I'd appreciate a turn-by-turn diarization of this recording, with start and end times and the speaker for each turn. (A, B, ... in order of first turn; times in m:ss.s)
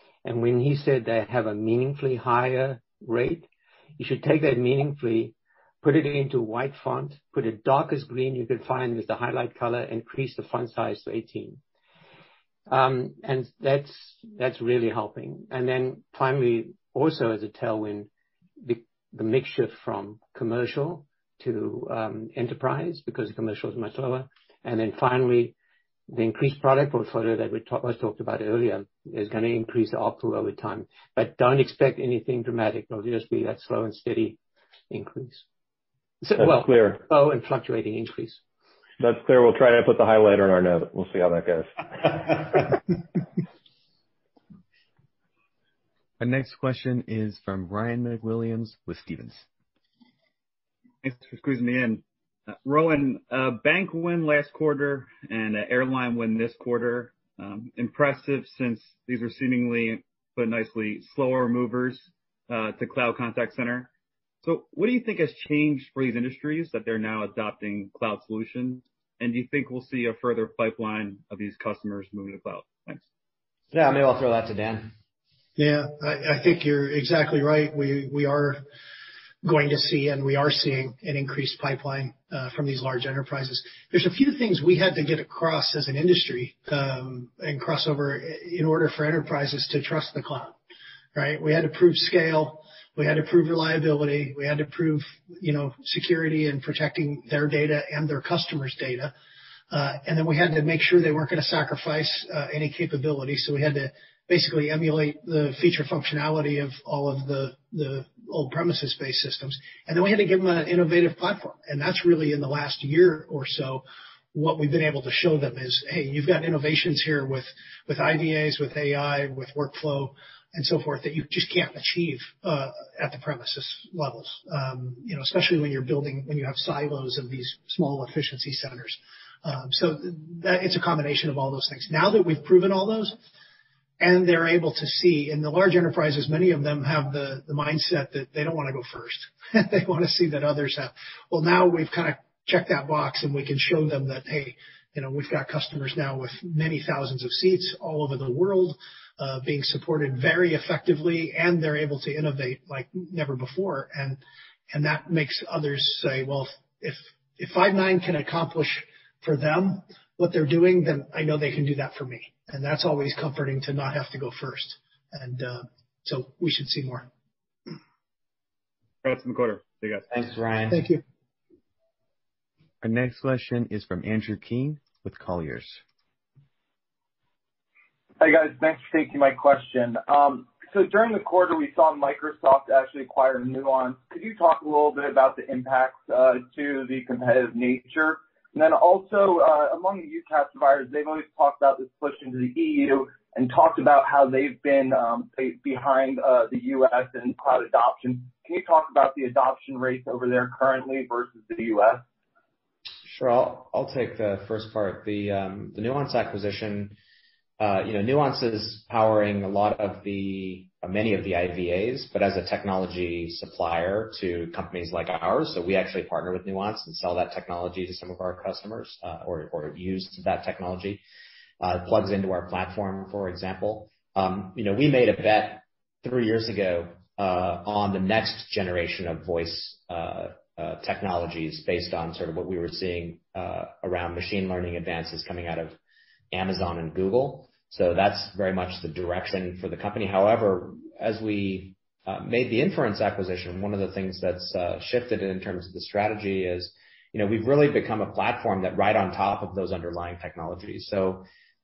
0:00.2-0:03.5 A
0:04.0-0:11.6 A
0:12.7-0:18.1 A
0:18.6-0:25.5 A
0:26.1-0:34.4 A
0:34.9-0:35.4 A
0:36.2-0:38.4 A
0:36.3-0:37.0 B
0:39.0-0:42.8 B
0:46.2-0:49.4 C
0:51.0-0:52.0 D
0:52.6-1:03.9 D
1:04.4-1:13.0 D
1:13.7-1:14.9 E
1:15.6-1:18.6 F
1:19.4-1:30.6 F
1:31.1-1:39.1 F
1:39.7-2:13.2 F
2:14.0-2:47.1 F
2:49.0-2:50.0 D
2:50.1-2:50.8 E
2:50.7-2:51.0 F
2:52.8-2:55.8 C
2:58.2-3:22.0 G
3:23.0-3:27.0 E
3:27.6-3:41.0 E
3:41.6-3:55.8 E
3:56.3-4:11.2 E